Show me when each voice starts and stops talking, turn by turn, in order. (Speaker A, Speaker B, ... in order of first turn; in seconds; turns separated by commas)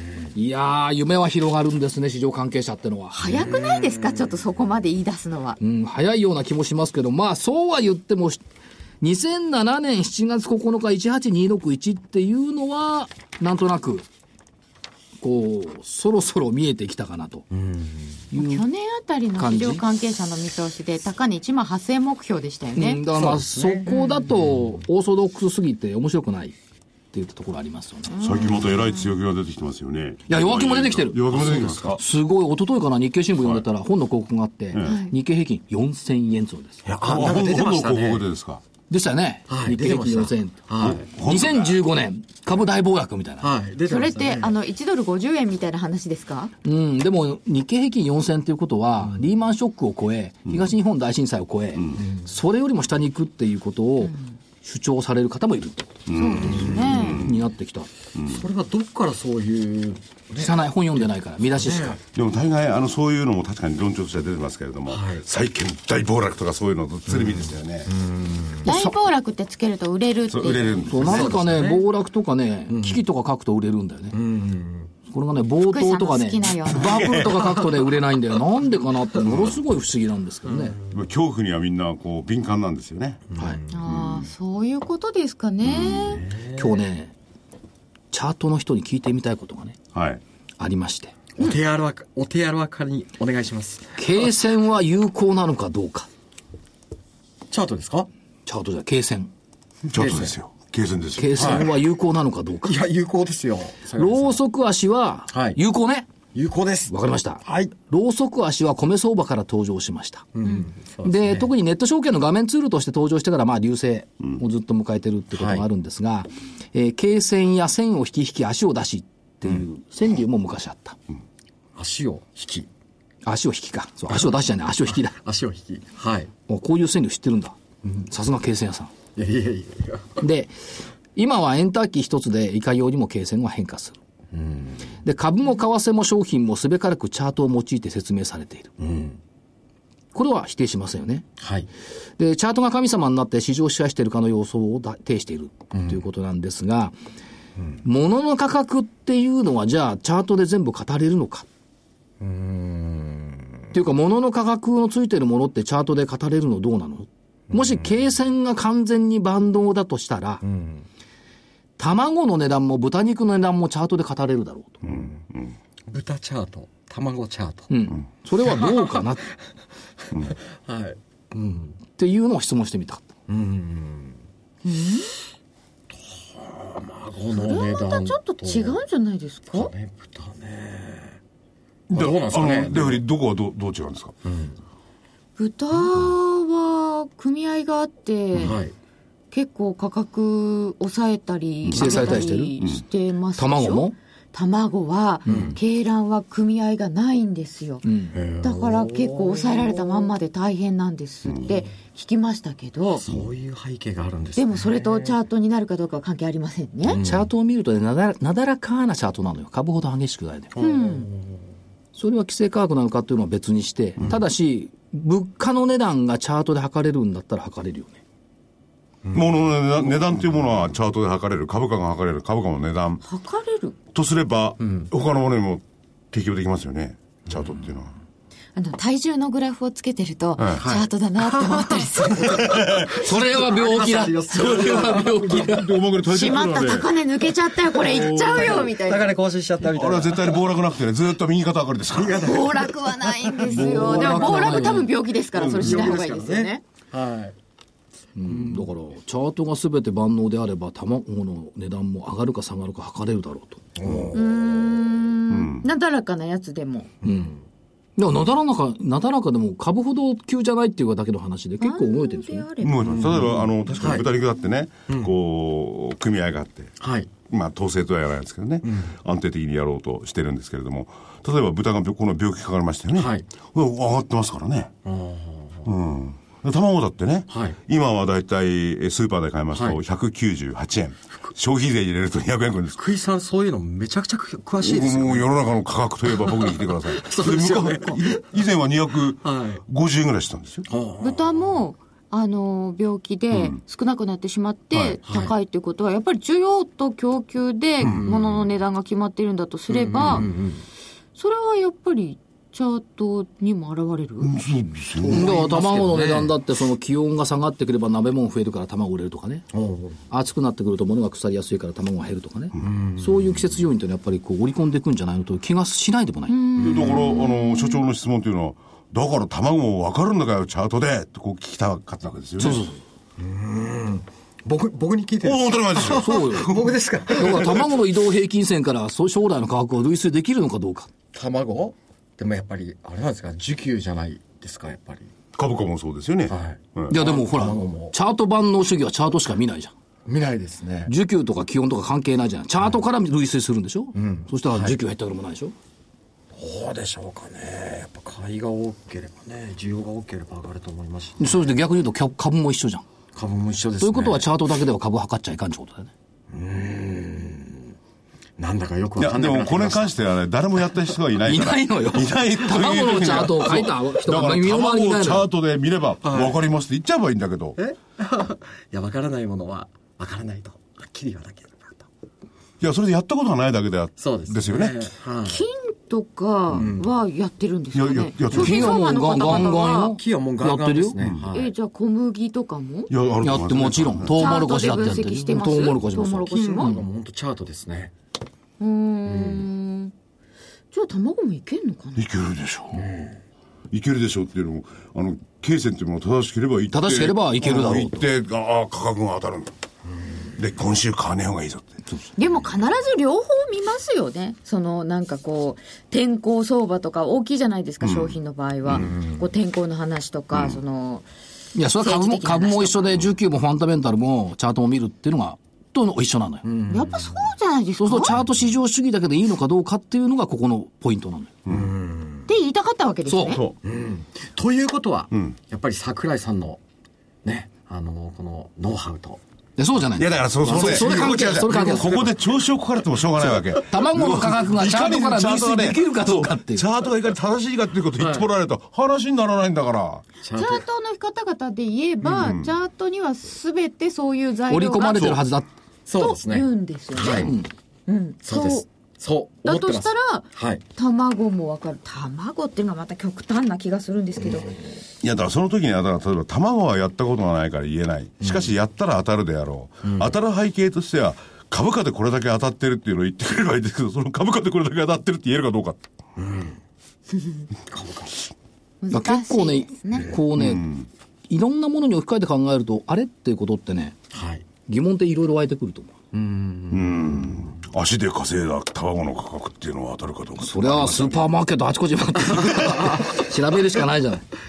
Speaker A: 0.3-3.5, Speaker B: 3.1-5.6, Speaker C: 3.4-4.3, Speaker A: 5.6-8.4, Speaker A: 9.0-14.1, Speaker A: 15.2-17.4, Speaker C: 17.5-18.2, Speaker A: 18.3-18.6, Speaker B: 18.3-23.0, Speaker A: 19.4-19.8, Speaker A: 22.7-26.5, Speaker C: 23.1-23.9, Speaker B: 23.9-24.3, Speaker A: 27.1-28.1, Speaker B: 28.1-29.0, Speaker D: 28.2-32.0, Speaker A: 30.3-36.8, Speaker C: 31.3-31.9, Speaker B: 34.8-35.1, Speaker D: 36.9-38.6, Speaker C: 36.9-38.2, Speaker A: 38.9-43.5, Speaker C: 39.5-41.1, Speaker D: 40.8-41.8, Speaker C: 43.4-44.5, Speaker B: 43.9-46.5, Speaker A: 46.6-57.9, Speaker D: 56.1-57.4, Speaker B: 56.1-57.3, Speaker C: 56.4-57.1, Speaker D: 58.2-58.4, Speaker C: 58.3-60.5, Speaker A: 60.4-62.0, Speaker C: 61.6-62.0, Speaker D: 62.1-67.9, Speaker C: 64.9-65.3, Speaker C: 67.1-68.7, Speaker A: 68.6-69.0, Speaker B: 68.6-70.8, Speaker D: 70.3-71.5, Speaker A: 70.9-74.2, Speaker C: 70.9-71.8, Speaker C: 72.7-73.0, Speaker C: 74.1-74.9, Speaker A: 75.1-80.8, Speaker B: 75.7-77.1, Speaker D: 76.8-77.7, Speaker D: 79.2-79.5, Speaker C: 80.5-80.9, Speaker D: 80.9-83.2, Speaker C: 83.3-83.8, Speaker B: 83.7-86.2, Speaker D: 83.8-84.2, Speaker D: 85.7-86.1, Speaker C: 85.8-86.8, Speaker A: 86.5-87.1, Speaker A: 88.1-89.8, Speaker D: 89.9-90.2, Speaker A: 90.6-91.2, Speaker C: 91.3-94.0, Speaker A: 94.0-96.1, Speaker C: 97.5-98.1, Speaker A: 98.5-99.3, Speaker C: 99.9-100.3, Speaker D: 99.9-101.7, Speaker A: 101.2-102.8, Speaker C: 101.3-101.7, Speaker C: 102.6-104.4, Speaker A: 104.0-106.1, Speaker C: 105.3-105.6, Speaker C: 106.3-107.7, Speaker A: 106.9-110.3, Speaker C: 110.3-111.5, Speaker A: 111.0-121.0, Speaker C: 115.3-115.6, Speaker C: 121.8-122.7, Speaker A: 123.2-125.2, Speaker C: 125.0-126.3, Speaker A: 126.5-128.9, Speaker C: 129.2-130.2, Speaker A: 130.2-130.6, Speaker A: 131.1-134.0, Speaker C: 134.3-135.0, Speaker A: 135.0-138.7, Speaker C: 138.8-139.2, Speaker A: 140.1-141.2, Speaker C: 141.4-141.7, Speaker A: 142.2-146.9, Speaker C: 145.7-146.0, Speaker A: 147.8-151.5, Speaker C: 152.2-153.6, Speaker A: 153.7-160.4, Speaker C: 157.5-157.8, Speaker C: 160.4-160.8, Speaker A: 161.8-164.8, Speaker D: 164.8-165.5, Speaker C: 165.9-167.7, Speaker A: 167.7-169.2, Speaker C: 168.4-169.3, Speaker C: 170.1-171.8, Speaker A: 171.9-173.1, Speaker C: 173.3-174.2, Speaker B: 174.6-175.1, Speaker C: 175.9-178.8, Speaker B: 177.3-179.7, Speaker C: 179.5-181.2, Speaker D: 181.9-184.1, Speaker C: 181.9-183.0, Speaker C: 184.2-184.6, Speaker B: 185.4-188.6, Speaker C: 188.3-188.7, Speaker B: 189.3-197.8, Speaker D: 191.7-192.8, Speaker A: 191.7-192.5, Speaker A: 193.4-193.9, Speaker A: 195.2-195.6, Speaker C: 195.3-195.6, Speaker A: 197.8-198.1, Speaker C: 198.1-200.1, Speaker B: 198.4-203.0, Speaker C: 203.0-205.2, Speaker B: 204.3-207.0, Speaker C: 206.8-207.3, Speaker A: 207.0-210.5, Speaker C: 210.5-211.4, Speaker B: 210.6-211.1, Speaker A: 211.9-218.0, Speaker C: 219.0-220.4, Speaker D: 219.1-223.0, Speaker B: 223.0-223.8, Speaker D: 223.9-227.9, Speaker C: 224.6-224.9, Speaker B: 228.5-232.6, Speaker C: 230.6-235.6, Speaker D: 232.2-233.1, Speaker A: 232.6-235.8, Speaker D: 234.3-236.8, Speaker B: 236.1-239.1, Speaker C: 237.8-240.5, Speaker D: 237.8-238.6, Speaker D: 239.7-242.5, Speaker C: 241.9-247.3, Speaker B: 242.2-246.6, Speaker A: 243.4-244.9, Speaker D: 245.4-246.0, Speaker A: 248.1-253.7, Speaker C: 248.2-248.7, Speaker C: 253.8-254.6, Speaker D: 253.8-254.1, Speaker B: 254.1-256.9, Speaker D: 255.3-255.7, Speaker C: 257.0-257.3, Speaker A: 257.0-257.3, Speaker A: 257.9-262.5, Speaker B: 261.6-262.8, Speaker D: 262.6-266.7, Speaker C: 262.8-264.1, Speaker C: 264.9-265.1, Speaker C: 266.8-267.1, Speaker D: 267.3-274.7, Speaker C: 268.6-268.9, Speaker C: 272.9-273.2, Speaker C: 274.8-275.7, Speaker D: 275.6-282.8, Speaker C: 277.3-277.6, Speaker C: 279.5-279.8, Speaker C: 282.8-285.3, Speaker D: 284.6-290.6, Speaker C: 286.1-288.5, Speaker C: 289.2-289.6, Speaker C: 290.7-291.3, Speaker B: 291.0-300.3, Speaker D: 293.3-293.6, Speaker D: 294.7-295.0, Speaker C: 295.1-295.3, Speaker C: 297.8-298.2, Speaker C: 299.7-300.6, Speaker D: 299.9-300.3, Speaker B: 301.1-304.3, Speaker D: 304.2-305.3, Speaker C: 304.9-306.3, Speaker A: 305.1-309.4, Speaker C: 309.5-310.0, Speaker A: 310.1-316.4, Speaker C: 312.6-313.5, Speaker B: 316.3-317.8, Speaker D: 316.6-322.6, Speaker C: 316.6-317.1, Speaker A: 322.4-322.8, Speaker C: 323.2-327.7, Speaker D: 325.2-326.7, Speaker A: 325.8-326.6, Speaker A: 327.1-330.9, Speaker C: 331.1-335.1, Speaker D: 335.3-336.9, Speaker C: 336.3-337.9, Speaker A: 336.9-339.7, Speaker C: 340.1-340.9, Speaker A: 340.9-345.5, Speaker C: 343.9-344.7, Speaker C: 346.3-351.4, Speaker A: 351.2-352.9, Speaker C: 353.1-354.3, Speaker A: 353.8-355.9, Speaker C: 356.3-357.7, Speaker C: 358.4-360.0, Speaker D: 359.0-367.6, Speaker A: 361.2-365.3, Speaker C: 366.0-366.4, Speaker C: 367.6-371.9, Speaker D: 372.6-374.7, Speaker C: 374.0-375.4, Speaker B: 375.2-379.9, Speaker C: 376.5-376.9, Speaker D: 377.7-379.2, Speaker A: 378.3-381.0, Speaker C: 379.1-381.5, Speaker D: 381.0-381.3, Speaker B: 381.3-382.9, Speaker D: 382.9-384.8, Speaker A: 383.2-386.8, Speaker B: 384.1-386.8, Speaker C: 386.2-387.9, Speaker B: 388.6-389.9, Speaker C: 389.1-389.4, Speaker B: 390.7-392.0, Speaker D: 392.0-392.9, Speaker C: 392.8-393.1, Speaker D: 393.7-399.5, Speaker A: 396.7-398.0, Speaker D: 400.3-401.8, Speaker B: 402.2-411.1, Speaker D: 407.8-408.9, Speaker C: 408.7-409.2, Speaker D: 410.3-410.6, Speaker A: 411.5-416.4, Speaker B: 411.7-413.0, Speaker C: 416.4-417.1, Speaker B: 416.7-418.2, Speaker A: 417.8-421.3, Speaker D: 421.4-421.7, Speaker C: 421.5-422.3, Speaker B: 422.3-423.4, Speaker A: 423.1-423.4, Speaker D: 423.3-423.6, Speaker C: 423.6-426.6, Speaker C: 427.2-429.2, Speaker A: 429.6-432.1, Speaker D: 430.0-440.0, Speaker C: 430.4-432.1, Speaker A: 433.5-436.6, Speaker C: 438.0-438.3, Speaker C: 440.2-440.6, Speaker B: 440.3-445.1, Speaker D: 442.1-442.5, Speaker A: 444.5-445.5, Speaker D: 444.9-445.2, Speaker C: 445.9-447.3, Speaker B: 446.0-447.3, Speaker A: 447.0-447.5, Speaker B: 447.9-448.6, Speaker C: 448.2-450.6, Speaker B: 449.4-450.2, Speaker B: 450.8-454.6, Speaker C: 454.3-454.6, Speaker D: 455.0-465.8, Speaker C: 458.2-458.5, Speaker C: 459.8-460.1, Speaker C: 466.2-466.6, Speaker C: 467.7-468.3, Speaker B: 468.8-470.1, Speaker A: 468.9-470.7, Speaker D: 470.3-470.9, Speaker A: 471.3-473.9, Speaker C: 474.1-474.4, Speaker A: 474.7-475.9, Speaker C: 476.1-477.6, Speaker D: 476.7-481.3, Speaker A: 480.4-484.3, Speaker C: 482.4-483.1